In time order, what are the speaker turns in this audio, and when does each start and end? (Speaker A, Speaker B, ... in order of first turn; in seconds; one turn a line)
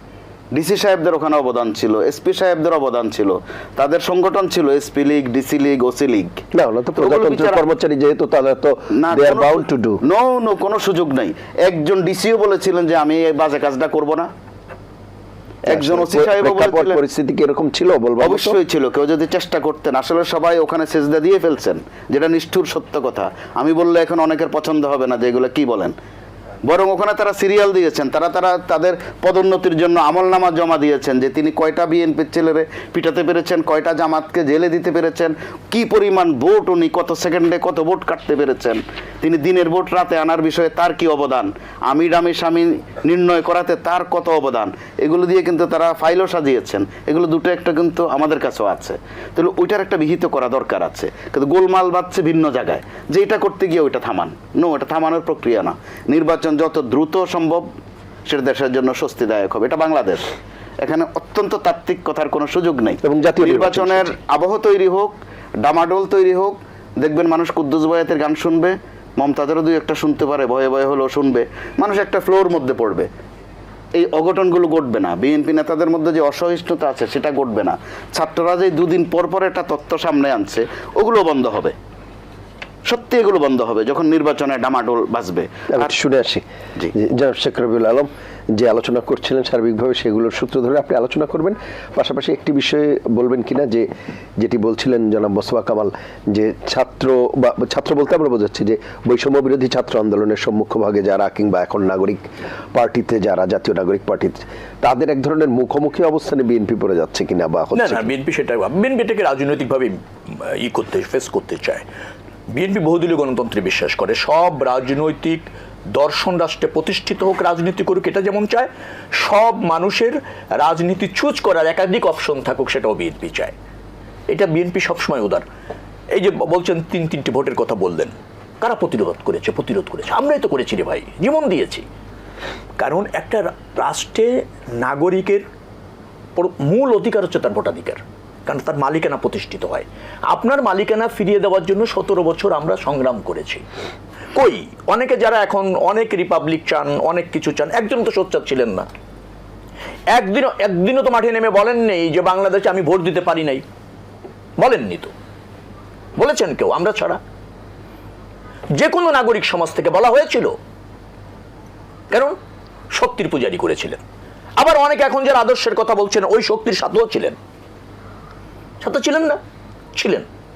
Speaker A: 0.5-6.4
Speaker B: 6.5-10.0
Speaker A: 7.0-7.7
Speaker A: 8.9-14.3
Speaker A: 15.7-17.0
Speaker B: 15.7-18.6
Speaker A: 18.2-25.9
Speaker A: 26.7-57.7
Speaker A: 58.3-60.2
Speaker A: 60.8-73.1
Speaker B: 63.0-64.1
Speaker A: 74.0-81.8
Speaker A: 82.9-86.0
Speaker B: 85.7-108.1
Speaker C: 107.7-111.8
Speaker C: 112.5-123.5
Speaker C: 124.3-125.4
Speaker C: 126.1-131.8
Speaker C: 132.8-135.4
Speaker C: 136.4-143.6
Speaker C: 144.3-148.9
Speaker C: 150.1-153.6
Speaker C: 154.6-155.1
Speaker C: 156.2-157.2
Speaker C: 158.8-160.5
Speaker C: 162.9-164.0
Speaker C: 164.6-167.4
Speaker C: 168.8-169.4
Speaker C: 170.0-170.2